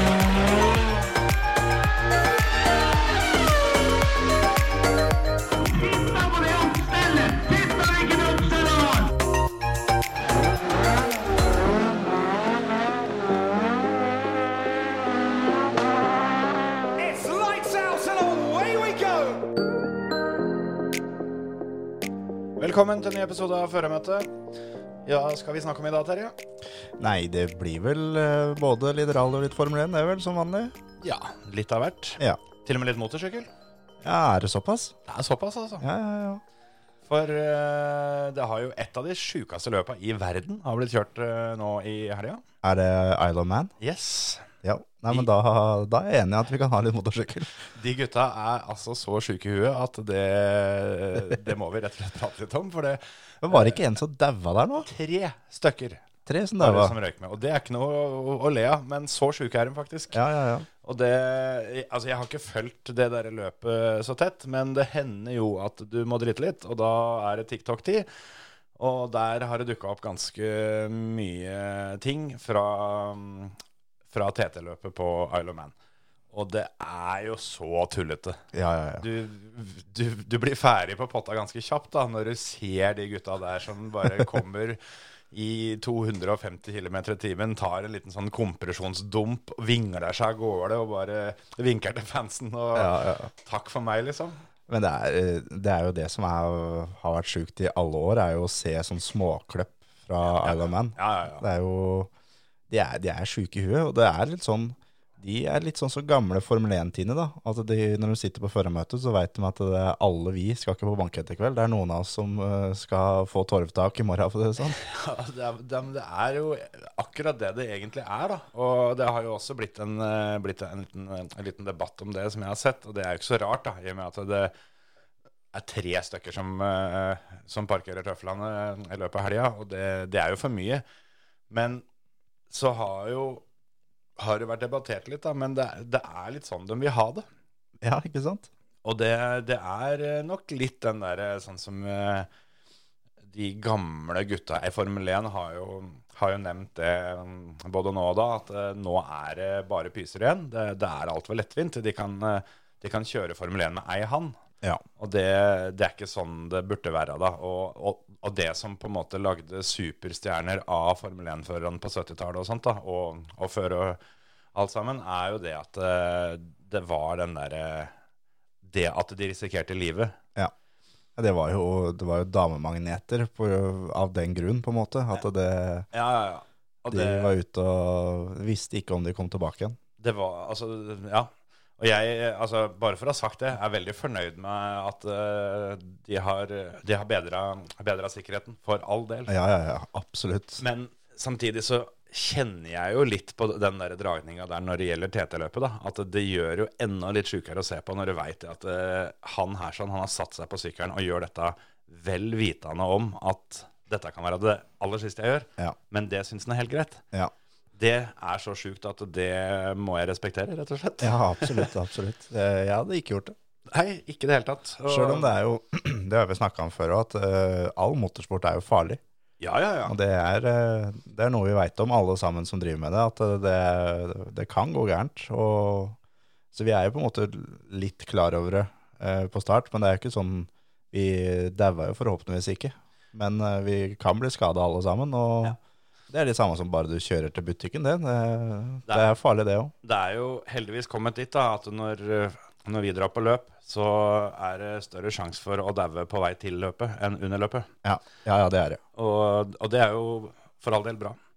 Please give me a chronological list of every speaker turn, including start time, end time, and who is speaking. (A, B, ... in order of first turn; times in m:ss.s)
0:05.7-0:09.1 A
0:17.0-0:19.4 A
0:22.6-0:24.3 B
0:25.0-0:26.3 B
0:27.0-0:30.7 C
0:31.0-0:33.5 B
0:34.0-0:34.9 C
0:35.1-0:35.8 B
0:35.8-0:36.4 C
0:37.0-0:42.4 B
0:42.6-0:43.7 C
0:43.8-0:44.5 B
0:44.6-0:47.5 C
0:47.7-0:53.8 B
0:53.4-0:54.9 C
0:54.8-0:56.0 B
0:56.2-0:57.0 C
0:56.6-1:00.2 B
1:00.1-1:00.7 C
1:00.8-1:08.1 B
1:08.8-1:13.6 B
1:14.1-1:15.7 B
1:16.3-1:18.4 B
1:18.5-1:19.0 C
1:19.0-1:24.8 B
1:25.3-1:34.4 B
1:32.7-1:33.3 C
1:34.7-1:42.1 C
1:40.2-1:41.4 B
1:42.7-1:54.8 C
1:54.6-2:04.5 B
2:05.5-2:10.8 B
2:11.5-2:11.8 B
2:12.5-2:13.4 B
2:14.2-2:17.2 B
2:17.8-2:18.5 C
2:18.8-2:22.3 B
2:23.3-2:34.4 B
2:35.0-2:44.0 B
2:44.5-2:47.9 B
2:48.6-2:50.2 B
2:51.2-2:55.9 C
2:55.9-2:57.3 B
2:56.9-2:59.8 C
3:00.0-3:09.3 B
3:09.3-3:10.6 C
3:10.6-3:27.0 B
3:27.7-3:31.7 B
3:31.0-3:33.3 C
3:33.7-3:35.3 B
3:34.9-3:39.0 C
3:39.4-3:39.9 B
3:39.8-3:46.0 C
3:46.5-3:55.6 C
3:56.1-3:59.7 C
3:59.8-4:07.7 B
4:07.8-4:08.8 C
4:09.0-4:11.2 B